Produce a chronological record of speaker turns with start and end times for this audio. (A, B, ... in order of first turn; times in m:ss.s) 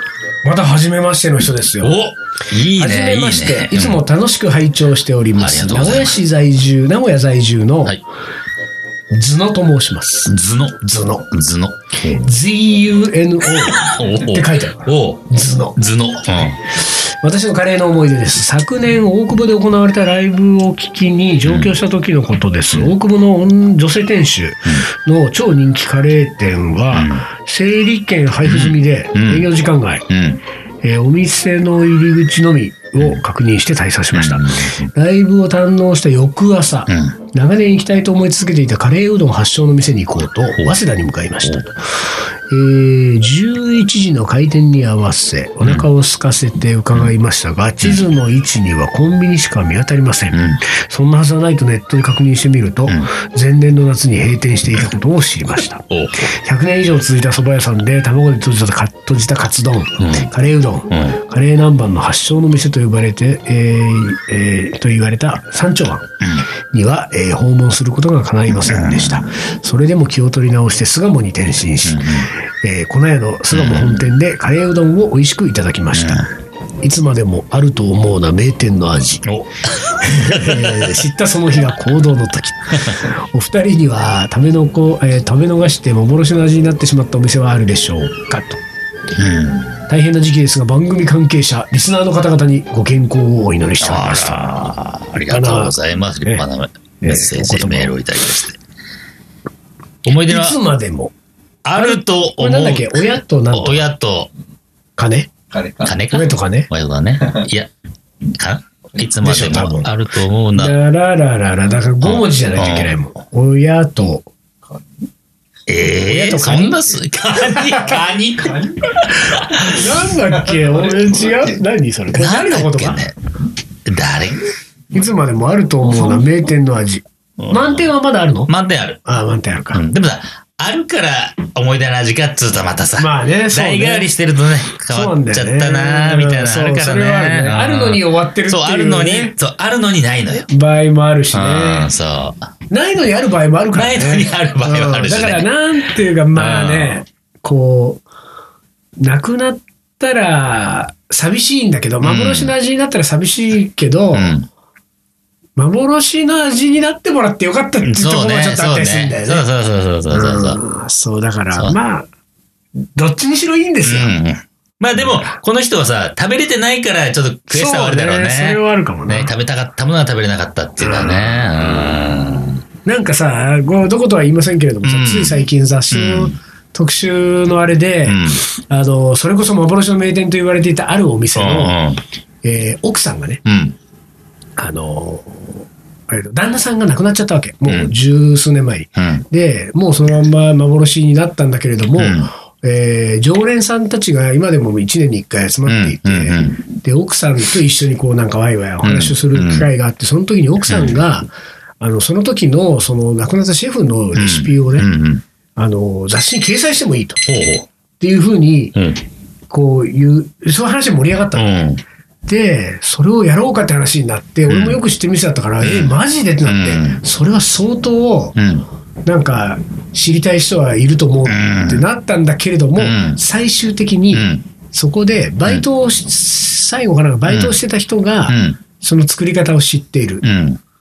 0:00.4-0:02.0 A
0:01.8-0:04.0 B
0:02.8-0:08.0 A
0:05.4-0:06.2 B
0:09.1-0:11.3 A
0:10.3-0:10.8 B
0:11.3-0:12.2 B
0:12.1-0:15.8 A
0:13.6-0:16.6 B
0:16.8-0:30.1 A
0:21.4-0:21.7 B
0:26.9-0:27.2 B
0:28.4-0:29.5 B
0:30.1-0:30.4 B
0:30.8-1:06.1 A
0:34.1-0:34.9 B
0:36.9-0:37.2 B
0:50.3-0:50.6 B
0:55.9-0:56.3 B
1:00.0-1:00.3 B
1:06.7-1:16.3 A
1:08.5-1:09.2 B
1:11.8-1:12.3 B
1:13.5-1:14.1 B
1:15.9-1:16.3 B
1:16.8-1:19.3 A
1:19.3-1:21.0 B
1:20.0-1:28.6 A
1:29.2-1:29.8 B
1:29.9-1:34.6 A
1:33.8-1:38.6 B
1:35.3-1:36.4 A
1:37.0-1:38.0 A
1:40.0-1:40.6 B
1:40.1-1:41.1 A
1:41.6-1:44.3 B
1:41.8-1:43.9 A
1:45.0-1:45.3 A
1:45.5-1:46.0 C
1:45.8-1:47.7 B
1:46.1-1:46.7 A
1:47.2-1:47.5 C
1:48.2-1:50.8 B
1:48.9-1:49.4 C
1:49.2-1:49.9 A
1:50.6-1:54.3 A
1:52.0-1:53.0 B
1:55.7-1:59.9 B
1:56.0-1:56.8 A
1:57.5-1:58.0 A
1:58.4-1:59.0 C
1:58.9-2:03.1 A
2:00.3-2:01.6 C
2:02.1-2:03.2 B
2:03.9-2:04.5 B
2:04.9-2:08.5 A
2:07.4-2:07.9 B
2:08.5-2:09.0 B
2:09.0-2:09.8 A
2:09.7-2:20.5 B
2:13.0-2:14.1 A
2:14.9-2:19.3 A
2:20.5-2:21.9 A
2:21.3-2:22.5 B
2:22.7-2:28.1 A
2:23.7-2:25.5 B
2:26.3-2:27.0 B
2:29.0-2:34.4 A
2:32.0-2:32.5 B
2:34.1-2:34.5 B
2:35.6-2:39.4 A
2:37.8-2:40.6 B
2:40.1-2:42.1 A
2:43.0-2:44.2 A
2:43.8-2:52.6 B
2:45.0-2:45.4 A
2:47.5-2:49.3 A
2:50.8-2:51.7 A
2:52.8-3:01.8 A
2:54.8-2:56.4 B
2:58.1-2:58.4 B
3:01.4-3:02.0 B
3:02.4-3:03.4 A
3:03.4-3:03.8 B
3:04.6-3:24.9 A
3:07.7-3:07.9 B
3:09.0-3:09.2 B
3:12.0-3:12.3 B
3:15.7-3:16.6 B
3:18.8-3:19.7 B
3:20.6-3:21.0 B
3:24.2-3:25.2 B
3:25.6-3:27.2 A
3:27.3-3:27.7 B
3:28.0-3:28.8 A
3:28.8-3:29.0 B
3:29.5-3:31.5 A
3:31.4-3:31.8 B
3:32.2-3:38.4 A
3:34.5-3:34.8 B
3:35.6-3:37.0 B
3:38.4-3:38.6 B
3:39.0-3:50.2 A
3:41.3-3:41.8 B
3:42.8-3:43.2 B
3:44.1-3:44.4 B
3:47.3-3:47.6 B
3:48.3-3:48.6 B
3:50.2-3:50.6 B